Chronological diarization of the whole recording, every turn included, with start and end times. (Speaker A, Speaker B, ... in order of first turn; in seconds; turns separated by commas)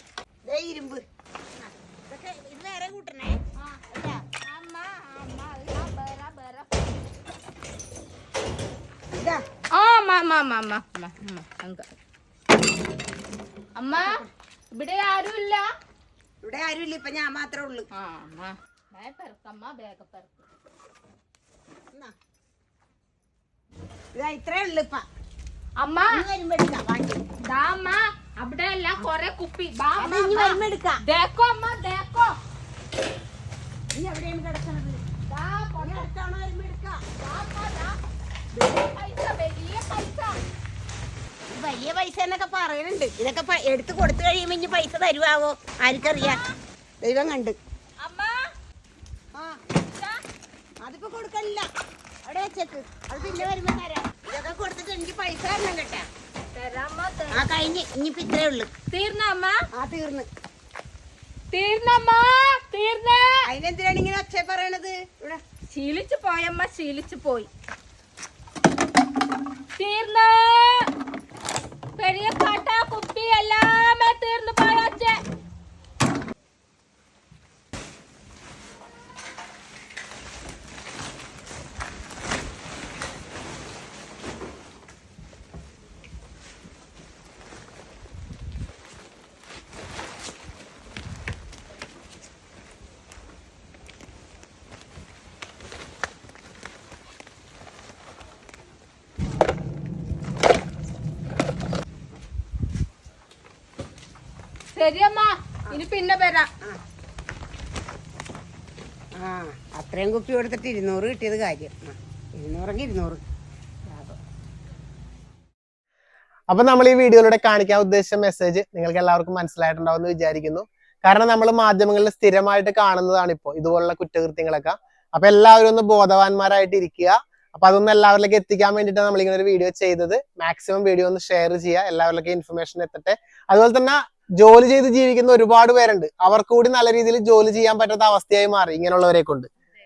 Speaker A: 0.5-1.0, Speaker A: 1.6-4.2, Speaker B: 4.4-7.0, Speaker A: 9.2-9.4, Speaker B: 9.7-11.9, Speaker B: 13.8-14.2, Speaker A: 13.9-14.3, Speaker B: 14.7-15.7, Speaker A: 16.4-17.9, Speaker B: 17.9-20.4, Speaker A: 24.1-25.0, Speaker B: 25.8-26.2, Speaker A: 26.1-27.2, Speaker B: 27.4-32.4, Speaker A: 30.0-31.0, Speaker A: 33.9-35.0, Speaker B: 35.3-36.1, Speaker A: 35.8-37.0, Speaker B: 37.2-38.0, Speaker B: 38.5-40.4, Speaker A: 41.5-46.4, Speaker B: 46.0-46.5, Speaker A: 47.0-47.6, Speaker B: 48.0-48.5, Speaker B: 49.8-50.2, Speaker A: 50.8-51.6, Speaker A: 52.2-56.1, Speaker B: 56.5-57.4, Speaker A: 57.3-58.7, Speaker B: 58.9-59.6, Speaker A: 59.7-60.3, Speaker B: 61.5-63.5, Speaker A: 63.5-65.4, Speaker B: 65.7-67.5, Speaker B: 69.8-70.9, Speaker B: 72.0-75.2, Speaker B: 104.7-106.5, Speaker A: 109.2-113.2, Speaker C: 116.5-139.5